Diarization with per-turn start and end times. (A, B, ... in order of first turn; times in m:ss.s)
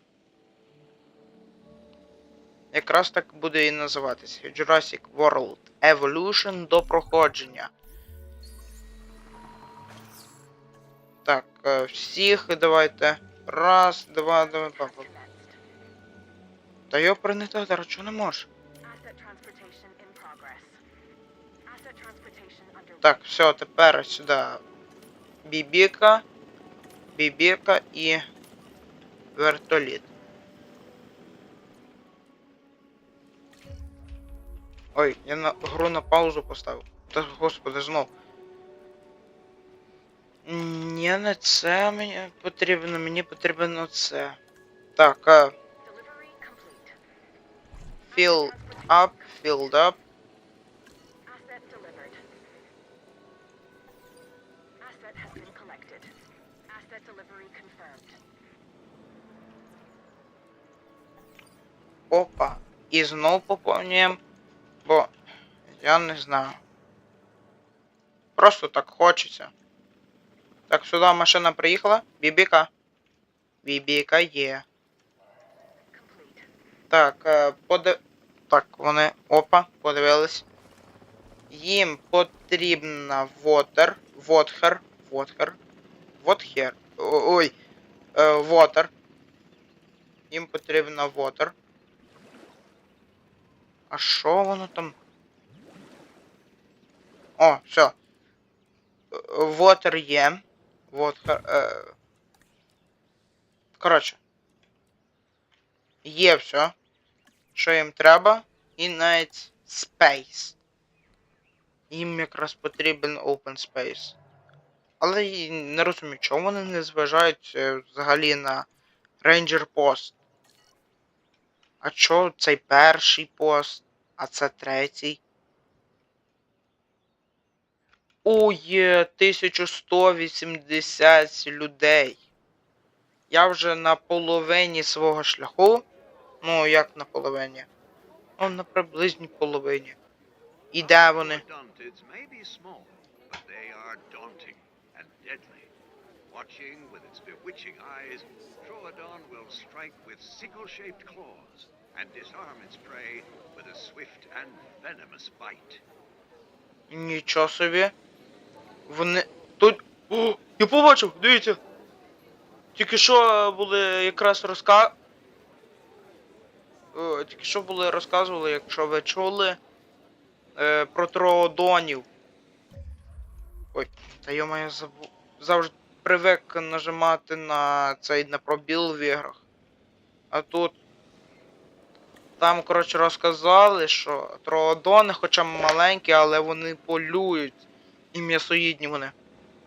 0:02.7-0:07.7 A
0:11.2-0:15.1 A
0:14.3-0:15.6 B
0:16.9-0:18.5 A
0:18.8-0:20.8 B
0:21.7-0:23.3 B
0:23.0-0:24.6 A
0:25.4-0:26.2 A
0:27.2-0:28.2 A
0:29.4-0:30.1 A
0:35.0-0:38.1 A
0:40.5-0:44.4 A
0:45.0-0:45.5 A
0:45.8-0:47.0 B
0:48.0-0:49.8 B
0:48.1-0:50.0 A
0:51.3-0:52.2 B
0:54.8-0:56.1 B
0:56.7-0:58.2 B
1:02.1-1:04.2 A
1:04.8-1:05.1 A
1:05.7-1:06.6 A
1:08.4-1:09.5 A
1:10.7-1:12.7 A
1:13.6-1:14.6 A
1:15.9-1:16.5 B
1:16.9-1:20.5 A
1:21.5-1:25.6 A
1:26.2-1:27.5 A
1:28.2-1:28.9 A
1:30.3-1:31.5 A
1:33.9-1:35.0 A
1:37.4-1:38.0 A
1:39.1-1:41.9 A
1:43.8-1:44.2 A
1:46.0-1:46.7 A
1:47.6-1:50.6 A
1:51.9-1:54.2 A
1:55.0-1:58.7 A
1:59.2-2:00.1 A
2:01.8-2:05.2 A
2:08.2-2:12.2 A
2:13.3-2:15.8 A
2:16.4-2:17.7 A
2:18.4-2:20.0 A
2:20.7-2:21.4 A
2:20.8-2:25.7 C
2:26.3-2:35.8 C
2:36.9-2:37.9 A
2:38.9-2:41.6 A
2:42.8-2:45.0 A
2:46.9-2:49.6 A
2:50.6-2:52.1 A
2:53.7-2:59.4 A
3:00.3-3:00.8 A
3:02.4-3:07.6 A
3:08.1-3:09.1 A